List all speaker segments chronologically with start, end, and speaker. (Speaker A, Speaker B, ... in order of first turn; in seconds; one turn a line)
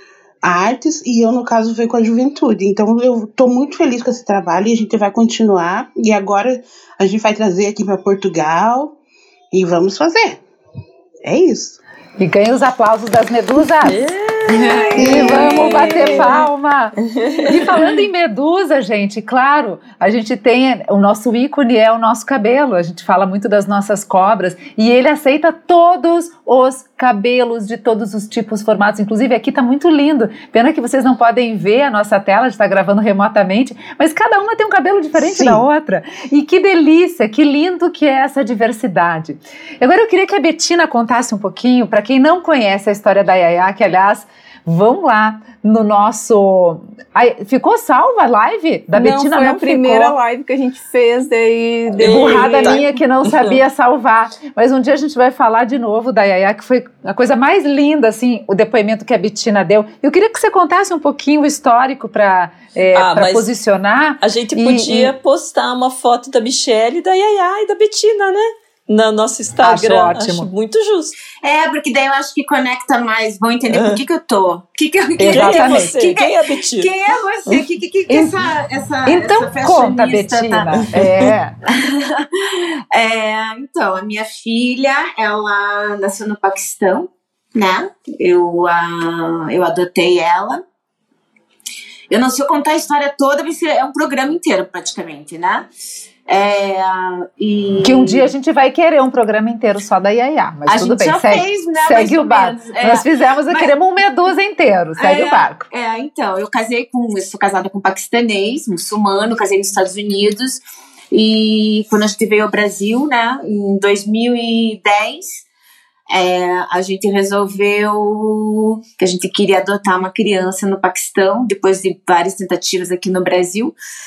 Speaker A: 0.4-9.0
Speaker A: 9.5-10.4
Speaker A: 11.2-11.8
Speaker B: 12.2-14.0
Speaker C: 13.8-16.4
Speaker D: 14.6-16.3
Speaker A: 15.0-15.6
Speaker B: 15.0-50.1
Speaker C: 17.1-17.8
Speaker A: 35.1-35.6
Speaker E: 48.9-52.9
Speaker C: 52.0-53.6
Speaker B: 52.0-65.1
Speaker C: 62.9-63.5
Speaker C: 64.2-71.2
Speaker B: 69.6-70.5
Speaker D: 71.4-80.8
Speaker C: 73.7-74.0
Speaker B: 75.2-76.0
Speaker C: 75.2-76.9
Speaker B: 77.5-78.3
Speaker B: 79.0-81.5
Speaker C: 81.0-81.3
Speaker D: 81.7-90.6
Speaker D: 92.1-95.7
Speaker D: 96.3-98.3
Speaker B: 97.8-105.6
Speaker D: 100.7-103.8
Speaker D: 105.0-110.6
Speaker D: 111.1-115.4
Speaker D: 116.1-123.7